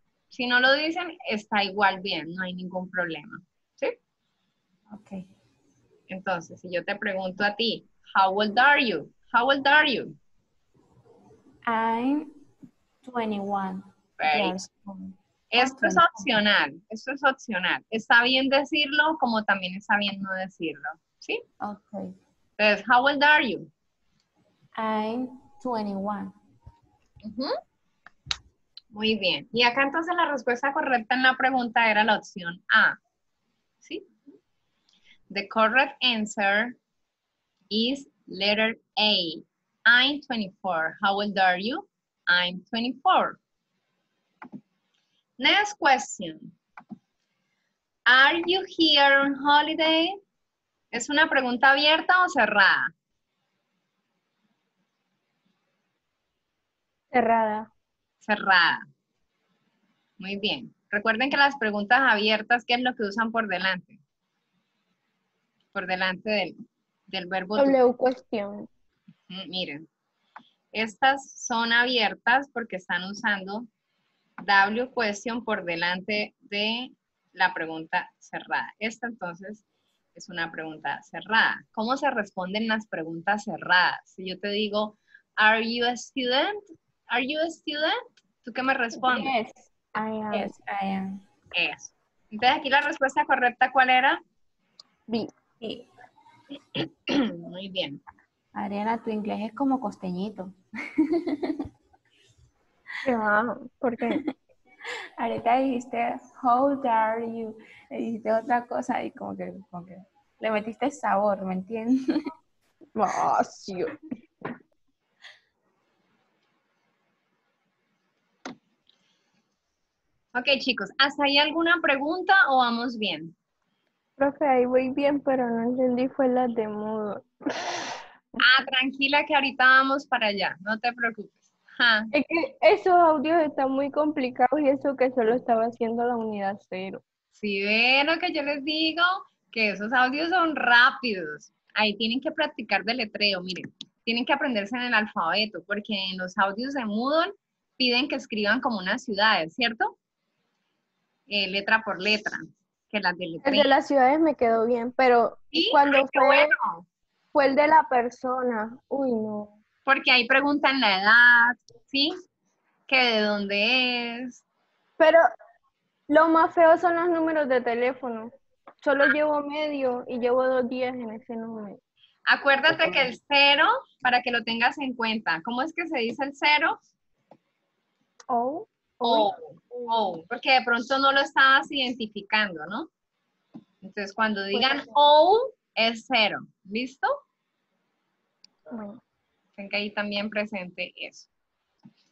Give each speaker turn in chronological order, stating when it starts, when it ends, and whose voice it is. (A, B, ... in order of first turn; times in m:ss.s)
0:00.3-0:04.0 A
0:04.9-0:05.3 B
0:06.1-0:10.2 A
0:11.6-0:12.3 B
0:13.0-0:16.4 B
0:14.2-0:14.6 A
0:15.5-0:21.4 A
0:21.6-0:22.1 B
0:22.6-0:23.7 A
0:24.8-0:26.4 B
0:27.2-0:27.5 A
0:28.9-0:33.0 A
0:35.3-0:36.8 A
0:37.7-0:43.4 A
0:45.4-0:46.5 A
0:48.1-0:50.2 A
0:50.9-0:52.9 A
0:57.1-0:57.7 C
0:58.2-0:58.9 A
1:00.2-1:04.0 A
1:05.7-1:06.5 A
1:07.1-1:07.8 A
1:07.6-1:08.7 C
1:09.3-1:09.8 A
1:10.7-1:13.7 A
1:14.4-1:19.6 A
1:20.1-1:29.3 A
1:29.0-1:29.4 B
1:29.1-1:30.5 C
1:30.3-1:31.2 B
1:31.5-1:34.2 A
1:35.6-1:35.9 B
1:36.8-1:38.0 A
1:38.5-1:41.6 B
1:43.0-1:44.3 C
1:45.2-1:52.0 B
1:53.0-1:54.0 C
2:00.3-2:03.3 A
2:04.2-2:08.0 C
2:08.4-2:12.1 A
2:12.1-2:17.0 C
2:17.4-2:30.0 A
2:31.3-2:33.7 A
2:33.4-2:36.5 C
2:35.5-2:36.9 A
2:37.3-2:39.6 C
2:39.9-2:42.1 A
2:42.9-2:44.4 A
2:45.0-2:45.2 C
2:46.1-2:51.8 C
2:52.3-2:56.8 A
2:58.3-3:00.2 C
2:59.0-3:02.9 A
3:03.8-3:07.2 A
3:04.5-3:04.9 C
3:08.7-3:09.0 C
3:09.6-3:11.3 A